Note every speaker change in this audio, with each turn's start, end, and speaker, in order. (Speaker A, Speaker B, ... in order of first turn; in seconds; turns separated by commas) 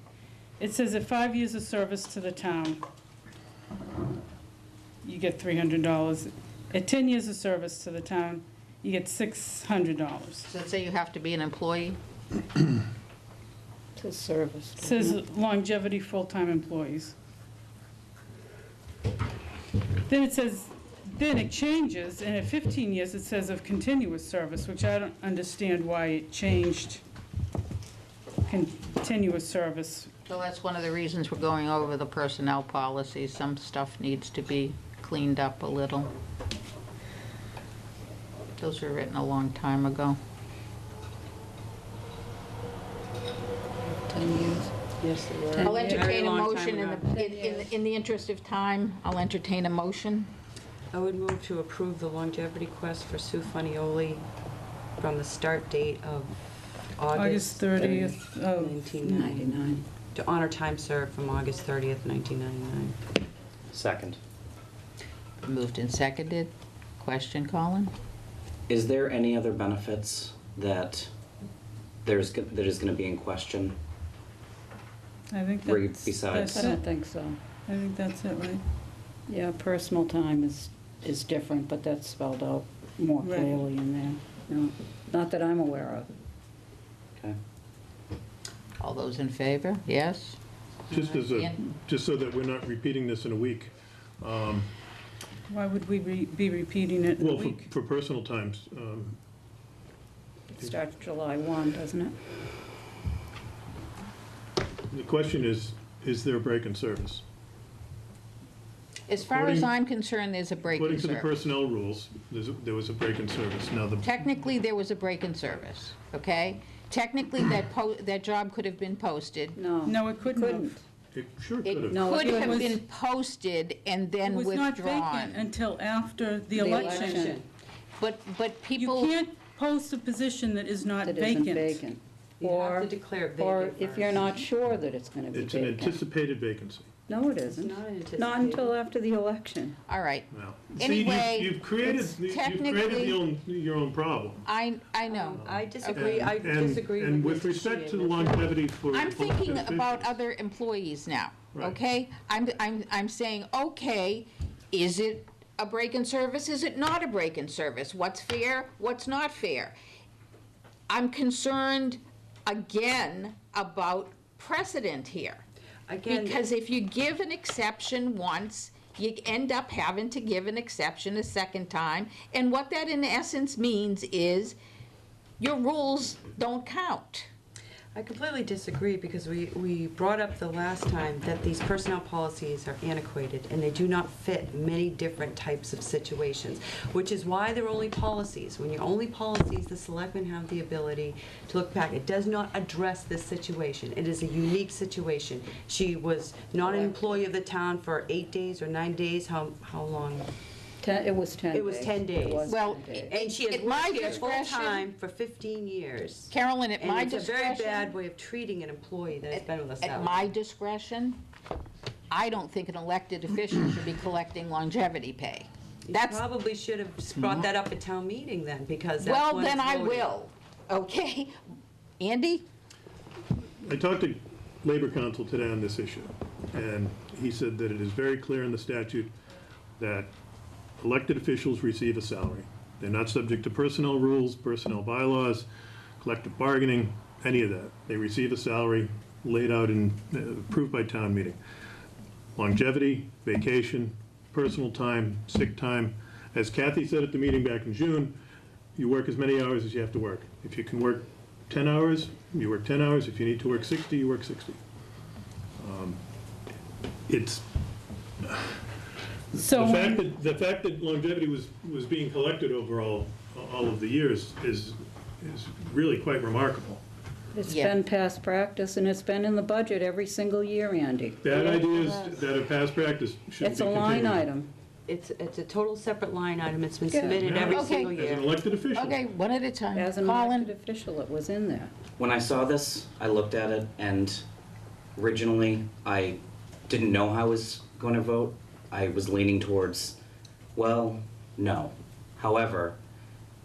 Speaker A: 0.6-2.8, Speaker A: 5.0-10.5, Speaker B: 10.5-12.0, Speaker C: 13.9-15.2, Speaker A: 14.8-17.1, Speaker A: 20.1-27.0, Speaker A: 28.5-30.1, Speaker B: 30.2-36.1, Speaker B: 38.6-40.2, Speaker C: 43.9-44.7, Speaker D: 45.0-47.1, Speaker C: 45.5-46.0, Speaker B: 45.6-50.3, Speaker A: 45.7-46.0, Speaker C: 47.3-47.6, Speaker D: 50.9-54.2, Speaker D: 55.0-63.0, Speaker A: 57.1-59.3, Speaker C: 59.2-59.8, Speaker E: 63.7-64.2, Speaker B: 65.4-67.9, Speaker E: 68.7-71.1, Speaker E: 72.0-73.8, Speaker A: 75.3-76.8, Speaker E: 75.6-76.6, Speaker C: 76.4-77.4, Speaker A: 77.7-78.6, Speaker C: 79.3-86.1, Speaker A: 83.2-83.6, Speaker B: 88.8-90.4, Speaker F: 90.9-94.7, Speaker B: 91.0-91.6, Speaker A: 95.5-97.6, Speaker F: 97.2-99.2, Speaker C: 100.5-102.2, Speaker F: 104.9-107.2, Speaker B: 109.1-111.3, Speaker F: 109.2-109.7, Speaker F: 110.7-114.1, Speaker B: 114.0-119.6, Speaker C: 119.6-120.8, Speaker A: 119.8-120.8, Speaker F: 121.1-122.2, Speaker B: 121.6-125.4, Speaker C: 121.9-122.8, Speaker A: 122.1-122.8, Speaker A: 124.2-126.9, Speaker C: 126.5-127.4, Speaker D: 126.6-127.5, Speaker B: 128.0-129.2, Speaker A: 128.8-131.8, Speaker C: 131.0-136.0, Speaker D: 132.4-134.4, Speaker F: 135.3-136.9, Speaker C: 137.1-139.8, Speaker D: 137.4-138.7, Speaker B: 139.9-143.2, Speaker F: 140.3-144.4, Speaker B: 144.4-146.0, Speaker D: 145.1-148.6, Speaker F: 145.4-150.2, Speaker B: 148.9-159.7, Speaker B: 160.9-165.4, Speaker D: 165.9-166.4, Speaker B: 166.1-174.6, Speaker B: 175.4-177.3, Speaker D: 177.9-200.3, Speaker C: 196.7-197.0, Speaker C: 200.8-203.1, Speaker D: 201.5-210.2, Speaker B: 202.4-204.8, Speaker B: 206.3-208.0, Speaker B: 209.3-211.2, Speaker B: 212.1-216.2, Speaker D: 215.8-220.1, Speaker B: 217.2-217.5, Speaker B: 219.0-221.3, Speaker B: 222.0-222.4, Speaker F: 223.6-229.1, Speaker F: 229.8-230.1, Speaker F: 230.8-235.5, Speaker F: 236.0-241.4, Speaker F: 242.3-248.2, Speaker F: 248.8-254.6, Speaker F: 255.6-256.0, Speaker F: 257.1-257.5, Speaker F: 258.2-258.6, Speaker F: 259.3-266.8, Speaker A: 259.3-260.1, Speaker C: 267.3-271.4, Speaker B: 267.5-267.8, Speaker F: 271.2-274.2, Speaker C: 273.4-274.5, Speaker D: 274.9-278.4, Speaker C: 276.9-277.2, Speaker F: 277.2-279.0, Speaker B: 277.4-277.9, Speaker B: 278.7-280.5, Speaker C: 279.7-281.7, Speaker E: 282.0-284.2, Speaker E: 284.9-290.0, Speaker E: 290.5-292.8